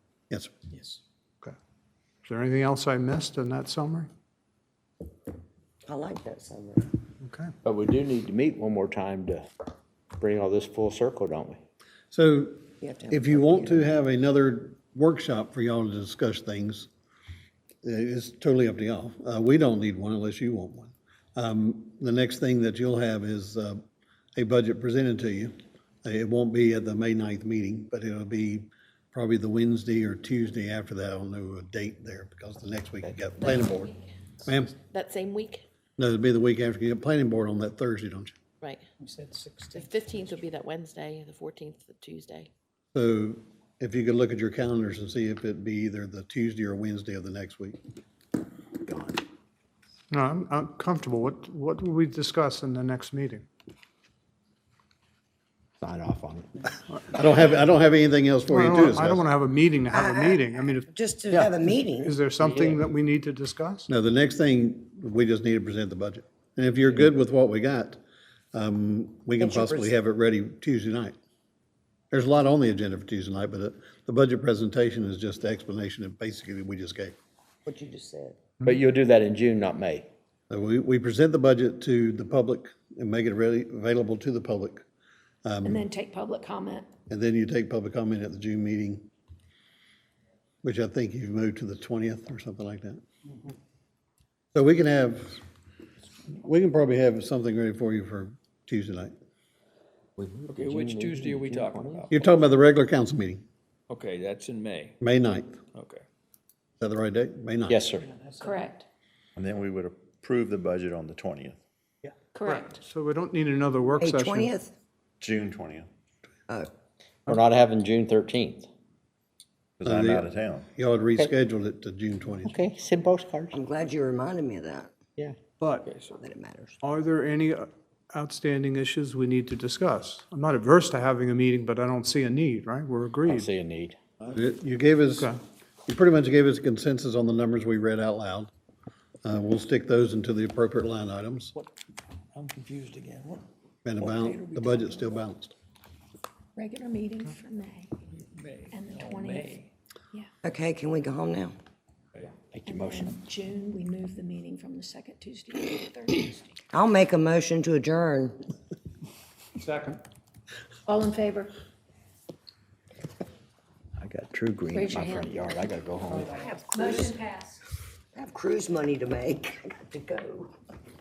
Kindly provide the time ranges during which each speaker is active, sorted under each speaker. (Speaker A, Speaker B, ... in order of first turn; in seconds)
Speaker A: 2.2-4.1, 7.2-7.5, 50.1-53.5, 58.5-63.9, 112.4-114.5, 125.6-125.9, 126.8-133.5
Speaker B: 5.9-6.9, 12.8-13.9, 59.9-62.1, 69.4-69.9, 77.7-78.4, 114.0-114.7, 123.5-124.9, 126.2-126.8, 150.4-151.6, 156.7-158.4, 166.3-167.2, 168.1-170.5
Speaker C: 7.6-9.5, 10.2-11.6, 48.9-49.2, 55.8-56.5, 78.7-80.1, 100.2-102.0, 107.7-108.0, 117.3-118.7, 122.5-123.5, 133.3-134.0, 152.5-153.1, 164.0-166.3
Speaker D: 12.1-16.9, 17.8-23.8, 24.4-34.8, 36.0-38.4, 42.9-47.8, 57.1-59.3, 63.9-68.0, 68.5-71.2, 72.1-77.2, 80.5-84.8, 85.5-85.9, 87.1-89.1, 90.6-93.0, 94.5-95.4, 96.3-99.1, 102.1-103.4, 105.0-105.6, 106.8-107.8, 119.8-122.6, 134.3-135.3, 135.9-138.5, 139.2-141.5, 143.8-145.6
Speaker E: 34.9-35.6, 39.4-42.5
Speaker F: 85.6-86.9, 108.4-108.8, 112.3-112.8, 146.6-147.9, 148.7-150.3, 152.7-156.6, 160.9-161.6, 164.7-167.6
Speaker G: 100.5-102.2, 103.9-105.0, 105.7-106.0, 125.8-126.2, 142.3-143.4, 144.0-144.7, 148.4-149.6, 159.7-160.0
Speaker H: 109.4-111.6, 115.2-115.9, 119.8-120.7